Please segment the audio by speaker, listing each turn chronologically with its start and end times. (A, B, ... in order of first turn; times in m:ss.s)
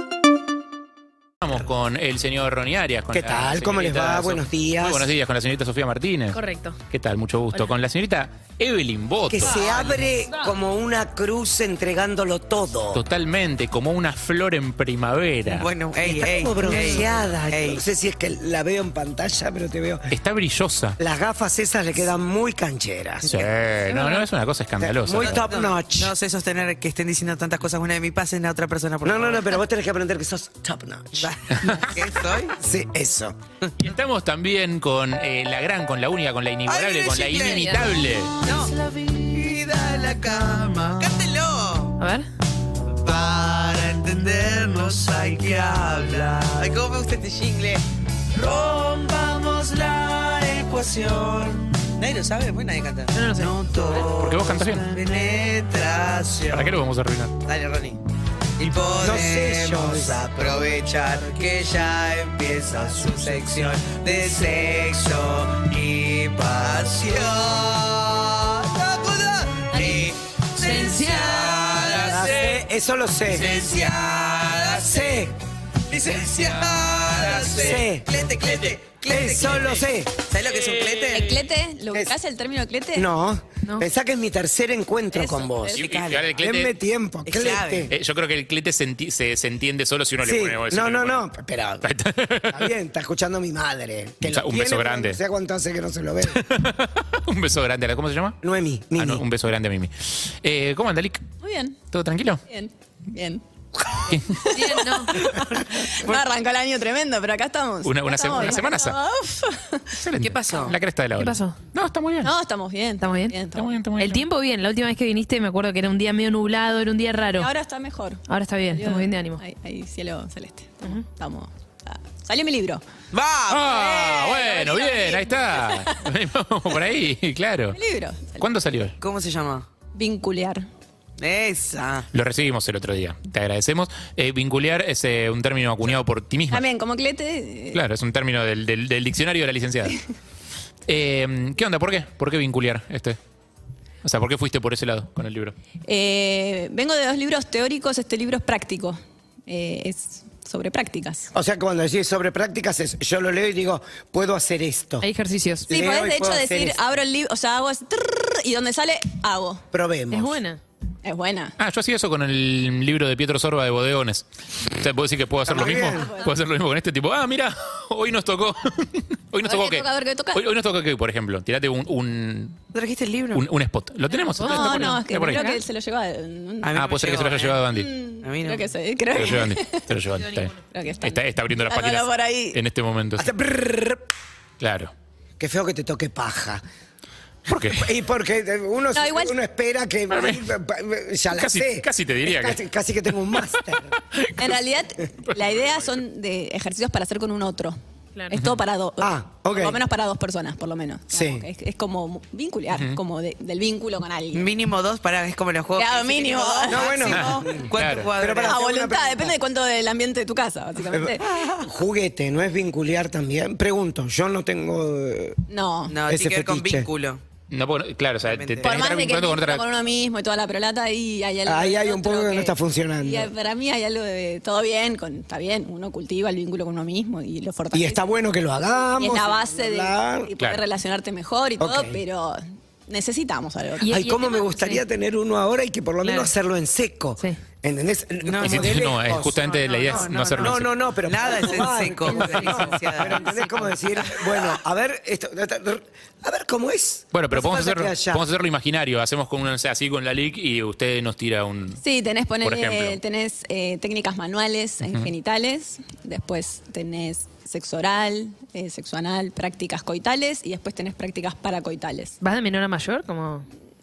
0:01.4-0:06.4 A
0:03.1-0:05.1 B
0:06.3-0:06.8 C
0:06.9-0:09.6 A
0:09.3-0:13.0 B
0:09.5-0:10.0 D
0:12.9-0:15.7 A
0:15.5-0:17.8 D
0:16.0-0:20.1 B
0:20.1-0:21.0 A
0:21.0-0:23.5 B
0:23.3-0:25.4 A
0:23.9-0:24.2 C
0:24.8-0:26.2 B
0:25.1-0:29.6 D
0:29.0-0:31.4 B
0:31.2-0:32.6 D
0:32.5-0:33.4 B
0:33.8-0:38.4 A
0:36.7-0:42.0 D
0:42.0-0:42.3 C
0:42.9-0:56.8 D
0:53.1-0:53.8 C
0:54.0-0:54.9 A
0:56.5-0:57.4 A
0:57.4-0:58.0 D
0:58.6-1:12.6 D
0:59.0-1:00.2 B
1:09.7-1:10.0 E
1:10.6-1:11.3 C
1:12.0-1:13.6 B
1:13.3-1:15.3 D
1:14.8-1:15.4 B
1:15.9-1:21.4 D
1:17.2-1:17.8 A
1:17.5-1:18.1 B
1:19.1-1:20.2 B
1:21.1-1:23.1 E
1:23.0-1:27.9 B
1:25.1-1:26.0 E
1:25.8-1:26.8 A
1:25.8-1:26.3 D
1:27.3-1:27.9 D
1:27.9-1:31.3 A
1:30.2-1:31.9 B
1:31.8-1:32.7 A
1:32.5-1:36.4 B
1:34.2-1:35.2 A
1:36.3-1:38.4 A
1:38.4-1:39.2 B
1:39.0-1:41.2 A
1:41.4-1:41.8 E
1:41.9-1:42.4 A
1:42.5-1:43.4 E
1:44.1-1:44.9 A
1:44.4-1:50.0 E
1:44.5-1:45.2 C
1:47.8-1:49.0 A
1:50.0-1:52.3 A
1:50.2-1:50.8 D
1:51.2-1:51.6 C
1:52.2-1:53.7 E
1:53.0-1:53.3 C
1:53.6-1:54.2 A
1:54.0-1:57.5 C
1:57.4-1:58.2 E
1:58.3-1:59.4 C
1:58.7-2:02.8 E
2:03.1-2:04.2 D
2:03.5-2:07.8 A
2:03.7-2:06.0 E
2:07.7-2:08.4 E
2:08.4-2:09.0 A
2:09.0-2:09.7 D
2:10.0-2:10.7 E
2:11.2-2:12.1 D
2:12.1-2:16.6 A
2:16.5-2:17.8 E
2:17.7-2:20.0 A
2:20.9-2:23.2 A
2:24.0-2:25.6 A
2:25.9-2:31.3 E
2:31.3-2:35.1 B
2:35.0-2:35.7 C
2:35.7-2:36.8 B
2:35.7-2:39.6 E
2:39.7-2:40.4 B
2:40.1-2:40.6 C
2:41.0-2:41.6 E
2:41.6-2:52.6 A
2:45.4-2:46.1 B
2:45.6-2:46.3 E
2:49.4-2:50.4 E
2:52.7-2:53.4 D
2:53.3-2:55.5 A
2:54.2-2:55.6 C
2:54.4-2:56.8 E
2:56.6-2:57.6 D
2:56.8-2:57.9 A
2:57.7-2:59.9 E
2:58.2-2:58.7 D
2:59.1-3:03.3 A
3:00.7-3:02.6 E
3:03.2-3:04.0 B
3:04.6-3:04.9 A
3:05.4-3:06.6 B
3:07.5-3:07.9 A
3:07.7-3:14.0 B
3:08.9-3:09.4 E
3:10.1-3:10.4 A
3:11.4-3:12.6 A
3:14.4-3:24.5 E
3:19.0-3:19.8 B
3:21.1-3:21.5 B
3:22.7-3:23.0 A
3:24.3-3:28.6 D
3:25.8-3:27.3 E
3:26.7-3:29.3 B
3:27.1-3:28.1 A
3:28.4-3:31.4 E
3:30.9-3:35.4 B
3:35.5-3:36.0 E
3:35.9-3:37.2 D
3:36.0-3:36.9 B
3:37.5-3:39.6 A
3:38.2-3:38.7 D
3:38.6-3:48.1 E
3:41.4-3:43.3 B
3:47.7-3:50.3 B
3:49.0-3:54.0 E
3:51.6-3:52.0 B
3:53.8-3:54.8 C
3:53.9-4:08.3 B
3:56.0-3:56.3 C
3:58.2-4:03.3 D
3:58.4-4:00.7 A
4:02.1-4:04.2 C
4:07.1-4:11.8 A
4:11.8-4:22.2 E
4:12.4-4:13.0 A
4:14.8-4:15.1 A
4:22.2-4:23.5 C